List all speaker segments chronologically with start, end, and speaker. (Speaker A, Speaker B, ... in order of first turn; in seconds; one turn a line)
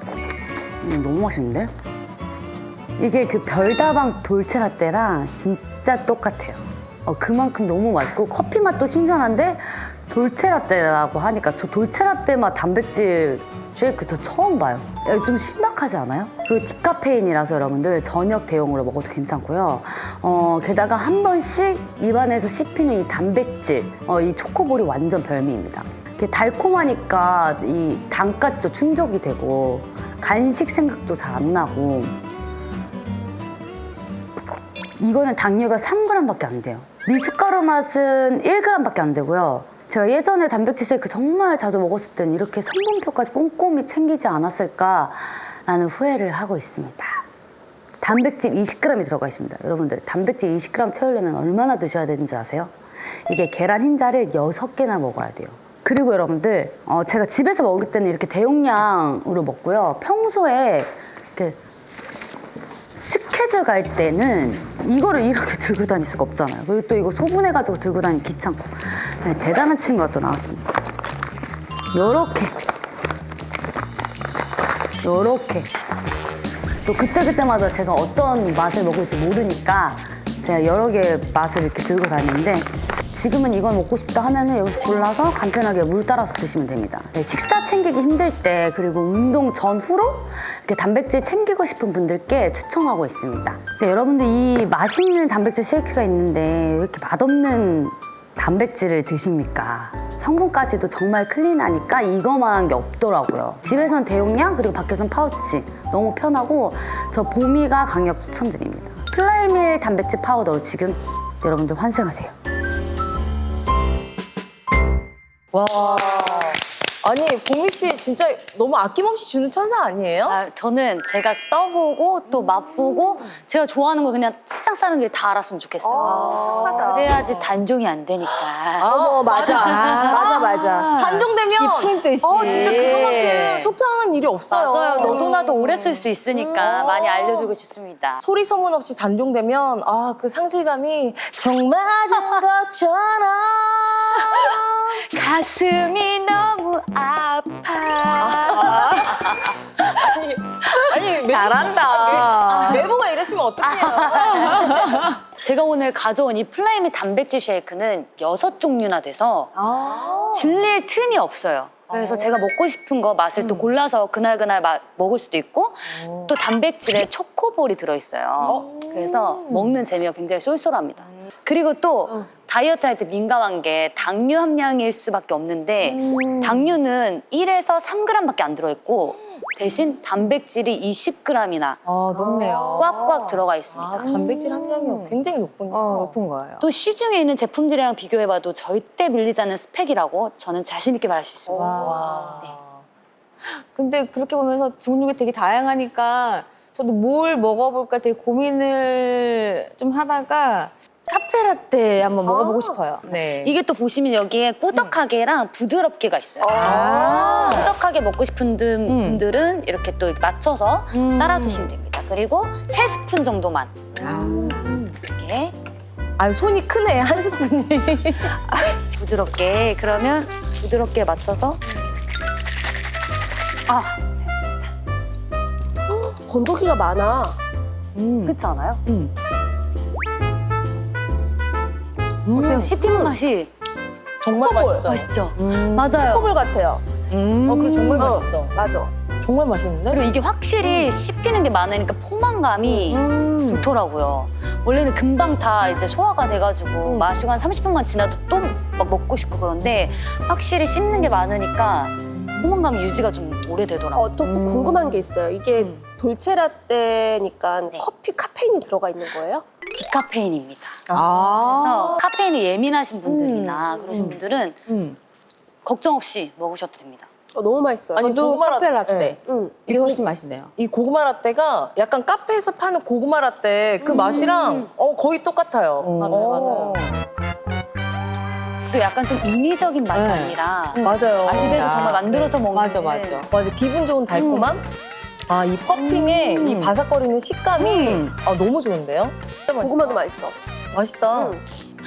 Speaker A: 0.8-1.7
Speaker A: 3.0-32.1
Speaker A: 35.0-47.2
Speaker A: 48.0-52.7
Speaker A: 53.3-61.6
Speaker A: 63.0-70.8
Speaker A: 71.9-72.5
Speaker A: 75.0-75.7
Speaker A: 76.8-112.3
Speaker B: 115.5-120.4
Speaker C: 120.2-130.2
Speaker D: 125.8-127.3
Speaker B: 126.0-127.5
Speaker E: 126.6-126.9
Speaker B: 128.8-137.5
Speaker D: 128.9-130.9
Speaker E: 129.6-133.7
Speaker C: 132.2-133.4
Speaker C: 134.5-138.2
Speaker B: 138.2-145.1
Speaker C: 144.3-149.5
Speaker B: 148.2-155.1
Speaker E: 150.6-152.9
Speaker C: 151.5-152.9
Speaker C: 153.6-181.8
Speaker E: 159.7-160.4
Speaker B: 159.8-160.5
Speaker B: 161.9-162.3
Speaker B: 163.4-163.7
Speaker B: 168.4-168.8
Speaker E: 175.8-176.8
Speaker B: 181.8-183.0
Speaker E: 182.1-183.4
Speaker C: 182.8-184.0
Speaker B: 183.7-186.2
Speaker E: 183.9-185.2
Speaker E: 185.7-186.7
Speaker C: 186.6-192.5
Speaker B: 191.5-192.7
Speaker E: 191.6-192.3
Speaker E: 193.5-203.6
Speaker D: 202.2-202.8
Speaker C: 203.3-215.5
Speaker D: 206.4-207.5
Speaker B: 206.5-207.7
Speaker E: 206.6-207.4
Speaker B: 208.9-209.2
Speaker E: 211.0-211.7
Speaker B: 214.0-214.7
Speaker E: 214.1-214.6
Speaker B: 216.2-218.6
Speaker C: 218.5-221.6
Speaker C: 223.7-224.7
Speaker D: 225.9-227.4
Speaker B: 227.9-229.1
Speaker C: 228.2-228.8
Speaker B: 232.2-233.1
Speaker C: 232.3-233.5
Speaker B: 234.2-236.0
Speaker C: 234.4-236.4
Speaker D: 236.0-236.9
Speaker B: 237.1-238.6
Speaker E: 237.4-238.1
Speaker D: 238.0-238.9
Speaker B: 239.2-241.0
Speaker C: 239.9-254.2
Speaker B: 242.7-243.7
Speaker D: 253.9-259.4
Speaker E: 254.3-255.0
Speaker C: 259.7-264.6
Speaker B: 260.9-262.0
Speaker E: 261.0-261.8
Speaker E: 263.0-264.2
Speaker B: 263.9-264.9
Speaker C: 265.6-267.1
Speaker D: 267.3-268.2
Speaker E: 267.9-270.5
Speaker B: 268.0-270.0
Speaker D: 269.2-269.6
Speaker B: 270.6-276.9
Speaker D: 273.8-274.2
Speaker C: 274.1-274.7
Speaker E: 275.8-276.2
Speaker C: 276.0-276.9
Speaker C: 278.7-283.2
Speaker E: 279.9-283.3
Speaker B: 280.8-282.0
Speaker B: 283.3-284.6
Speaker B: 285.3-290.0
Speaker E: 285.8-286.7
Speaker C: 287.6-288.0
Speaker D: 289.6-290.4
Speaker B: 290.7-291.4
Speaker D: 291.1-291.4